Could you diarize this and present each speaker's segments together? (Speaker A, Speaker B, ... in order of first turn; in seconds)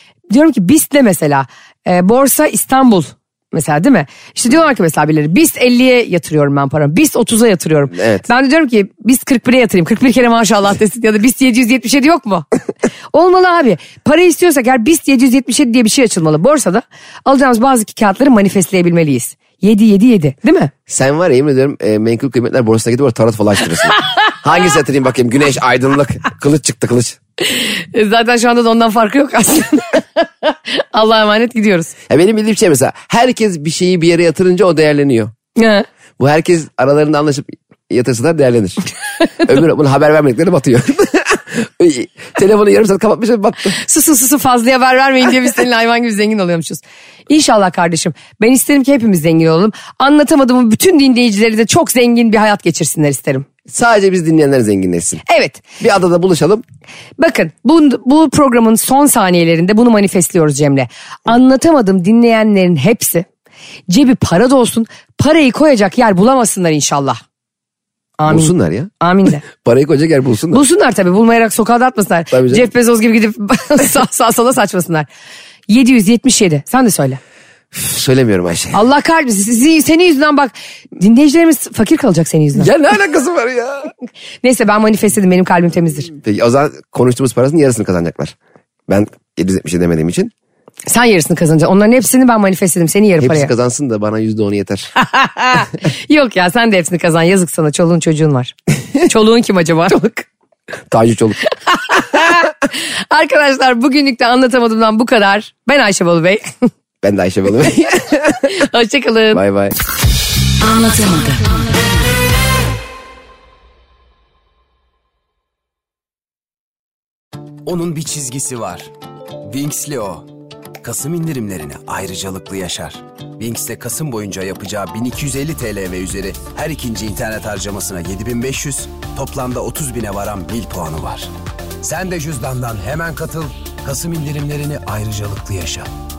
Speaker A: 0.3-12.4, 13.1-20.7, 27.5-31.9, 35.5-35.9, 43.8-53.5, 55.2-55.6, 57.2-63.2, 63.9-67.2, 68.2-69.4, 70.5-75.1, 75.7-77.2, 78.7-82.7, 84.4-86.1, 90.9-93.5, 95.0-100.2, 101.7-106.5, 108.5-109.4
Speaker B: 7.9-8.2, 20.9-27.2, 32.1-35.3, 36.2-38.8, 39.4-43.8, 53.7-55.2, 55.8-56.6, 68.3-68.9, 69.4-70.6, 72.3-72.7, 77.7-78.8, 82.5-83.9, 86.2-88.3, 88.9-90.3, 93.2-94.9, 100.9-101.4, 107.0-108.4, 109.3-109.8
Speaker C: 110.7-111.5, 117.6-118.9, 119.5-120.3, 120.8-135.9